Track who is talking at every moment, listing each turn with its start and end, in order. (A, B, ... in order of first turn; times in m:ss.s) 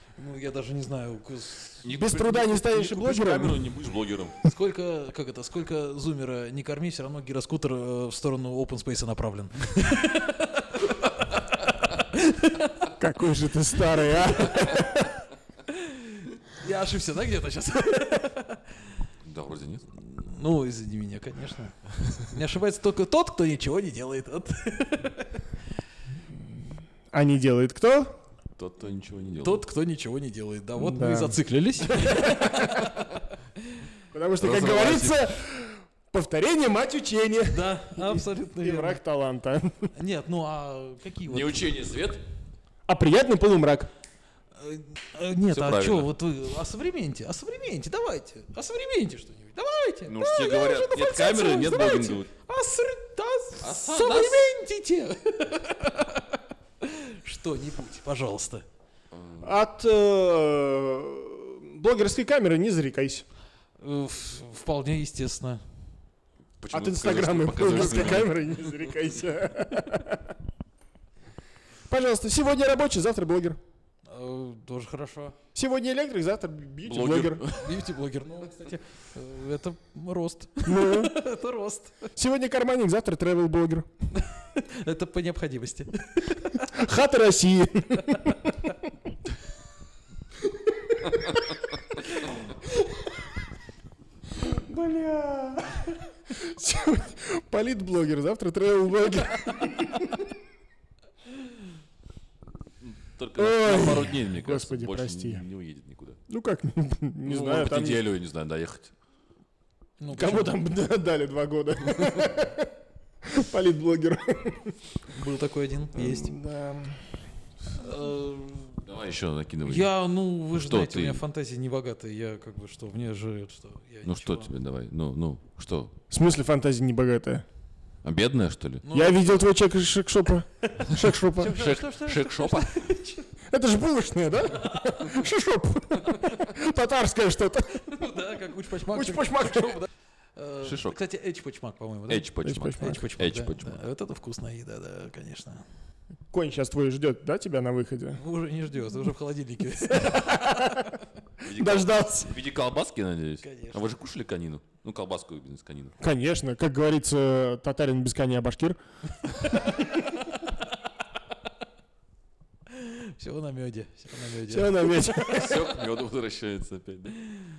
0:00.2-0:01.9 A
0:01.8-0:04.4 B
0:01.9-0:03.7 C
0:04.4-0:12.8 A
0:13.0-0:15.2 C
0:14.3-0:14.7 A
0:15.7-0:18.9 A
0:19.2-0:19.8 B
0:20.0-0:25.4 A
0:27.1-0:28.2 C
0:28.6-0:29.6 B
0:29.4-0:33.2 A
0:30.8-0:32.9 C
0:34.1-0:39.9 C
0:34.4-0:35.3 B
0:37.5-0:39.0 A
0:39.9-0:41.7 A
0:41.3-0:42.2 B
0:42.9-0:43.9 C
0:44.6-0:58.6 A
0:45.5-0:46.1 B
0:50.0-0:52.3 B
0:53.6-0:54.5 B
0:59.1-0:59.5 B
0:59.4-1:03.2 C
1:03.8-1:05.6 A
1:06.6-1:08.4 B
1:06.7-1:10.3 C
1:11.9-1:13.6 C
1:14.1-1:15.4 A
1:15.5-1:17.4 C
1:16.8-1:17.8 B
1:17.5-1:22.1 A
1:20.6-1:21.2 C
1:22.1-1:23.9 C
1:24.2-1:26.6 A
1:26.6-1:28.9 C
1:30.7-1:31.6 C
1:34.4-1:40.3 C
1:42.8-1:46.2 B
1:43.4-1:45.4 C
1:46.3-1:48.0 C
1:47.2-1:48.9 B
1:50.0-1:50.6 A
1:50.1-1:52.7 C
1:53.2-1:54.7 C
1:55.1-1:56.3 A
1:55.9-1:57.0 C
1:57.8-1:58.8 A
1:58.8-1:59.9 B
1:59.6-2:04.5 A
2:00.5-2:01.2 B
2:04.0-2:05.9 B
2:06.1-2:07.4 C
2:08.0-2:08.8 B
2:08.8-2:09.3 A
2:08.9-2:11.6 C
2:10.8-2:13.3 A
2:11.0-2:12.9 B
2:13.5-2:18.0 C
2:14.6-2:15.2 A
2:17.9-2:25.6 A
2:18.9-2:19.8 C
2:20.6-2:21.0 B
2:22.1-2:23.8 B
2:22.4-2:23.0 C
2:26.3-2:28.2 C
2:28.2-2:31.0 A
2:29.9-2:30.9 C
2:31.4-2:35.9 B
2:31.4-2:32.3 C
2:33.4-2:33.8 A
2:36.0-2:38.8 C
2:39.4-2:40.6 A
2:42.7-2:45.1 A
2:44.5-2:45.8 C
2:45.3-2:47.2 B